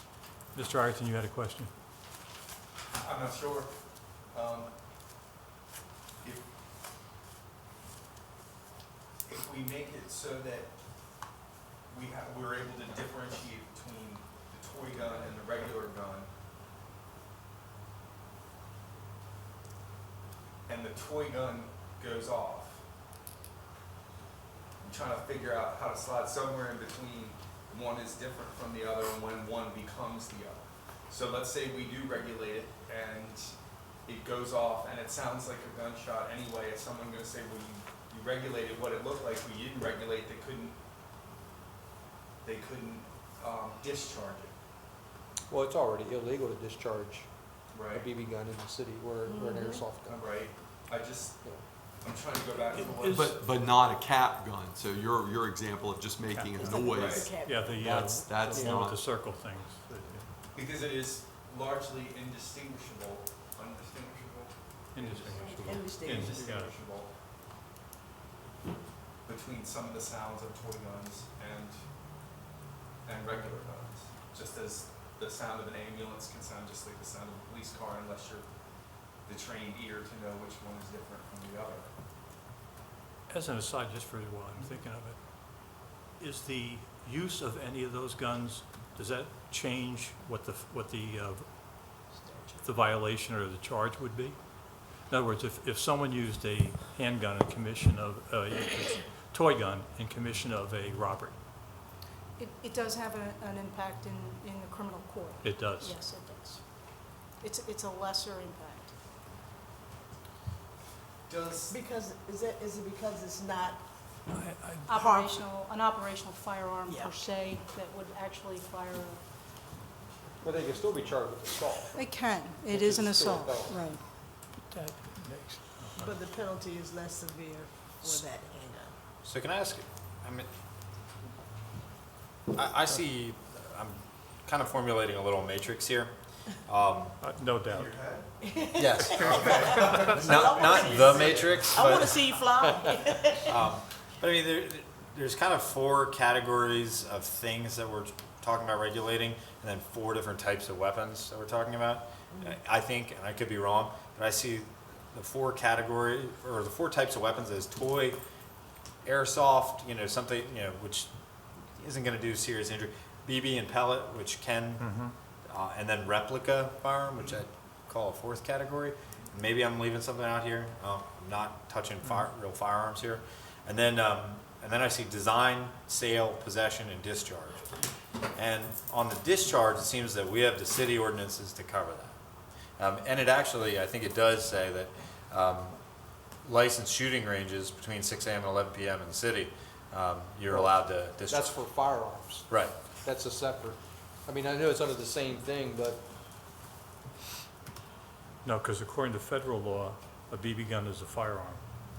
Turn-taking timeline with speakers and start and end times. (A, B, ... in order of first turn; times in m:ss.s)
0:00.5-0:01.7 A
0:02.9-0:03.7 B
0:04.3-0:04.7 B
0:09.2-0:10.8 B
0:11.9-0:16.3 B
0:20.6-0:22.8 B
0:24.8-0:40.8 B
0:42.4-0:44.6 B
0:45.5-0:47.3 C
0:47.7-0:48.1 B
0:47.9-0:50.2 C
0:49.3-0:49.8 D
0:50.0-0:51.4 B
0:52.0-0:53.4 B
0:52.5-0:53.3 A
0:53.0-0:59.0 E
0:56.3-1:00.3 A
0:56.6-0:57.8 D
0:56.9-0:57.3 B
0:58.5-0:58.8 C
1:00.5-1:07.1 B
1:04.9-1:06.7 A
1:05.5-1:06.6 D
1:09.2-1:11.9 B
1:13.0-1:18.5 B
1:19.0-1:21.9 B
1:23.3-1:41.4 A
1:42.4-1:48.9 F
1:45.4-1:46.0 A
1:51.3-1:51.8 B
1:51.7-1:53.8 D
1:54.3-1:54.9 A
1:54.8-1:59.2 F
1:55.0-1:55.4 D
1:56.9-1:57.2 D
2:00.4-2:02.0 C
2:01.9-2:04.0 F
2:02.6-2:03.8 C
2:04.6-2:06.2 A
2:06.0-2:08.9 D
2:09.2-2:10.5 G
2:12.5-2:16.1 G
2:16.6-2:17.2 G
2:17.2-2:17.9 A
2:17.7-2:18.3 B
2:18.8-2:19.6 G
2:19.1-2:20.2 A
2:19.3-2:20.3 B
2:20.2-2:22.4 G
2:20.3-2:23.5 D
2:21.3-2:21.6 B
2:23.4-2:38.2 G
2:39.0-2:41.1 G
2:41.7-2:57.6 G
2:44.8-2:45.1 A
2:58.3-3:02.1 G
3:02.8-3:05.8 G
3:06.4-3:11.6 G
3:10.5-3:16.0 C
3:12.5-3:12.7 G
3:18.4-3:21.6 A